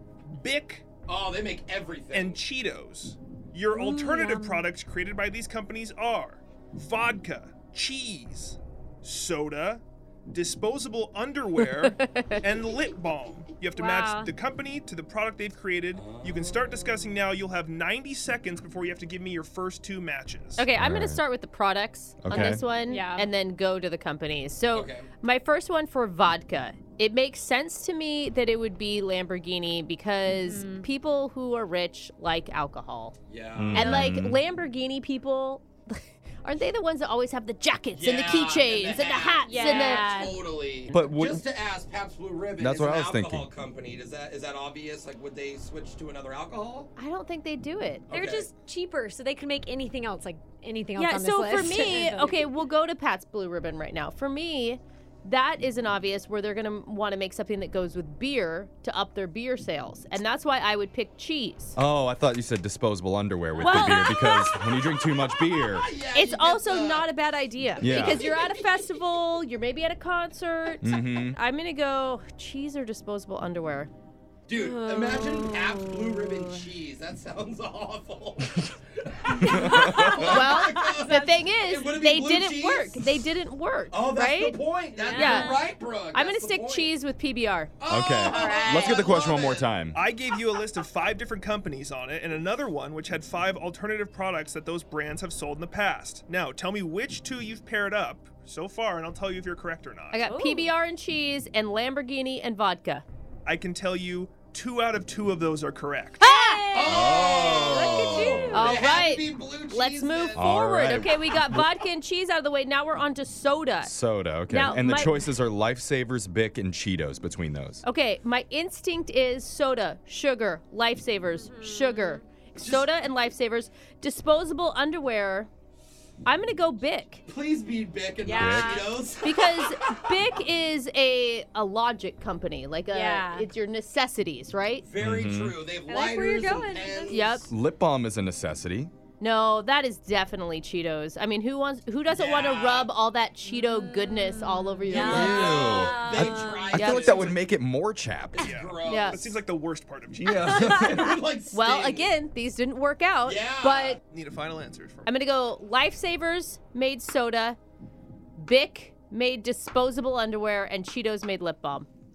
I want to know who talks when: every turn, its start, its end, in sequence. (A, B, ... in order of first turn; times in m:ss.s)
0:00.3-0:00.9 A
0:01.1-0:02.4 B
0:02.1-0:20.6 A
0:03.7-0:04.6 C
0:11.6-0:12.4 D
0:13.7-0:14.3 C
0:15.9-0:16.6 B
0:20.6-0:33.2 D
0:20.7-0:21.2 E
0:22.2-0:22.6 E
0:22.9-0:23.3 C
0:24.7-0:25.1 B
0:30.2-0:30.9 C
0:33.3-0:33.9 B
0:33.6-0:34.4 E
0:33.7-0:40.3 D
0:37.9-0:46.9 B
0:39.4-0:40.4 C
0:40.9-0:41.5 E
0:42.6-0:43.5 E
0:47.0-0:48.1 D
0:48.1-0:48.5 B
0:48.1-0:52.4 C
0:51.0-1:01.8 D
1:01.8-1:05.9 E
1:03.6-1:04.6 D
1:03.6-1:03.9 C
1:05.5-1:07.1 B
1:06.1-1:13.9 D
1:07.8-1:08.2 E
1:07.8-1:08.6 B
1:10.8-1:11.4 E
1:14.5-1:23.2 B
1:14.5-1:16.4 C
1:19.4-1:20.2 E
1:19.4-1:21.3 C
1:20.2-1:27.7 D
1:23.9-1:26.9 B
1:24.9-1:25.7 C
1:27.8-1:29.7 B
1:27.9-1:30.0 E
1:28.2-1:29.4 C
1:28.4-1:29.1 D
1:29.9-1:40.2 A
1:40.1-1:43.0 D
1:40.2-1:40.7 C
1:43.4-1:46.2 A
1:46.2-1:46.9 D
1:46.2-1:48.8 C
1:46.7-1:50.6 B
1:46.9-1:48.6 E
1:48.3-1:53.9 D
1:50.4-1:51.7 E
1:53.8-1:57.8 E
1:54.5-1:55.3 D
1:57.8-2:05.5 D
2:01.4-2:02.2 C
2:02.6-2:02.9 B
2:06.2-2:07.2 D
2:07.3-2:10.1 B
2:08.2-2:09.0 C
2:08.3-2:08.8 E
2:09.2-2:14.9 D
2:12.9-2:13.5 C
2:14.8-2:17.5 B
2:15.0-2:15.6 E
2:15.9-2:17.2 C
2:17.1-2:17.5 D
2:17.5-2:18.9 E
2:19.2-2:25.7 D
2:22.1-2:22.9 B
2:23.4-2:26.8 C
2:24.9-2:27.4 B
2:24.9-2:28.5 E
2:26.7-2:27.2 D
2:28.3-2:29.2 B
2:28.4-2:31.0 A
2:28.8-2:29.3 D
2:30.2-2:31.0 E
2:30.5-2:32.2 B
2:30.5-2:31.1 C
2:31.5-2:34.0 D
2:33.2-2:34.0 B
2:34.0-2:35.1 A
2:35.0-2:37.6 D
2:38.4-2:41.9 D